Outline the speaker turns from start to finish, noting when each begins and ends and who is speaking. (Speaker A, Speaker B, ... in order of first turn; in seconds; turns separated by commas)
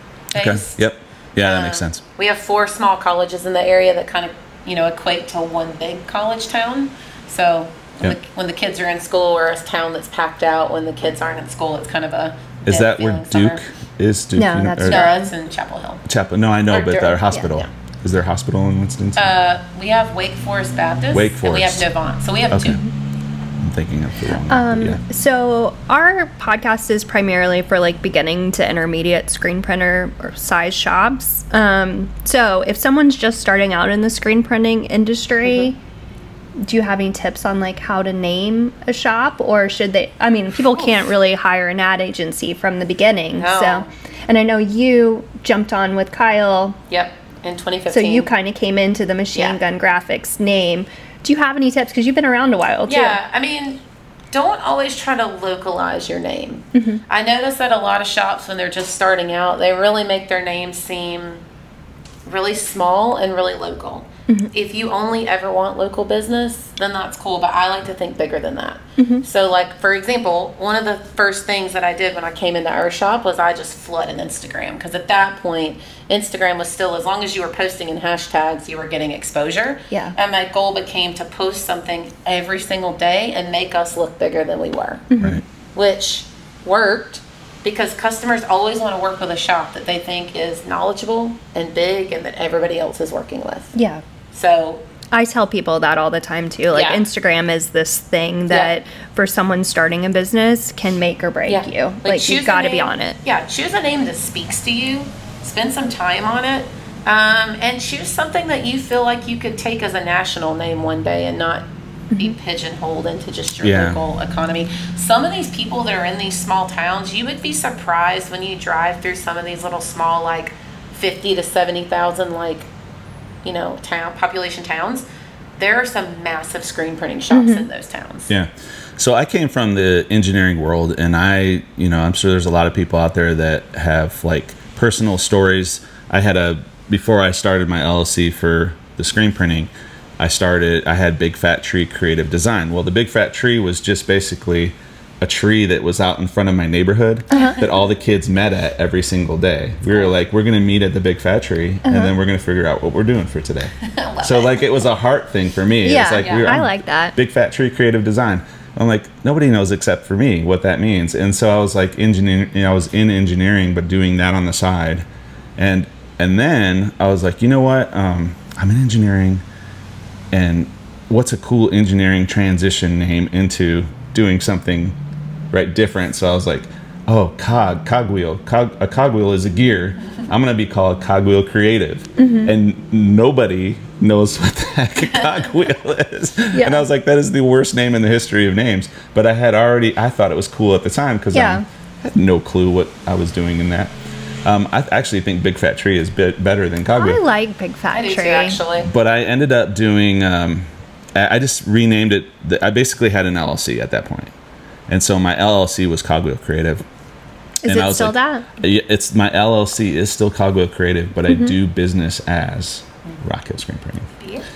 Speaker A: 0.3-0.8, Speaker B: 0.4-2.0, Speaker A: 1.4-13.6, Speaker B: 12.7-15.1, Speaker C: 14.4-15.3, Speaker A: 14.8-16.0, Speaker B: 16.1-19.3, Speaker A: 16.7-17.7, Speaker A: 19.2-22.8, Speaker B: 21.1-21.9, Speaker B: 22.5-22.8, Speaker B: 23.6-25.0, Speaker C: 24.5-35.8, Speaker C: 36.6-46.8, Speaker A: 43.4-43.9, Speaker A: 46.9-48.3, Speaker C: 47.9-53.2, Speaker A: 52.9-61.4, Speaker C: 56.8-57.0, Speaker A: 62.3-85.1, Speaker C: 69.0-69.2, Speaker C: 85.1-85.4, Speaker A: 85.8-93.7, Speaker C: 93.8-94.0, Speaker A: 94.3-94.8, Speaker C: 95.1-103.2, Speaker A: 96.7-97.0, Speaker A: 101.5-122.7, Speaker B: 113.6-114.0, Speaker A: 123.4-125.0, Speaker A: 125.6-128.3, Speaker C: 127.3-127.7, Speaker B: 128.3-153.7, Speaker C: 147.3-147.6, Speaker A: 147.3-147.6, Speaker C: 151.8-152.1, Speaker A: 153.8-154.8, Speaker B: 154.2-165.1, Speaker C: 155.8-157.2, Speaker A: 156.2-156.5, Speaker B: 165.6-169.4, Speaker B: 170.3-175.0, Speaker B: 175.5-193.9, Speaker C: 182.2-182.5, Speaker C: 186.5-186.8, Speaker C: 191.3-191.6, Speaker B: 194.4-197.2, Speaker C: 196.9-198.6, Speaker A: 197.9-198.9, Speaker B: 198.8-204.3, Speaker B: 204.9-206.8, Speaker C: 207.6-208.5, Speaker B: 207.7-214.1, Speaker C: 211.3-211.5, Speaker A: 214.2-214.4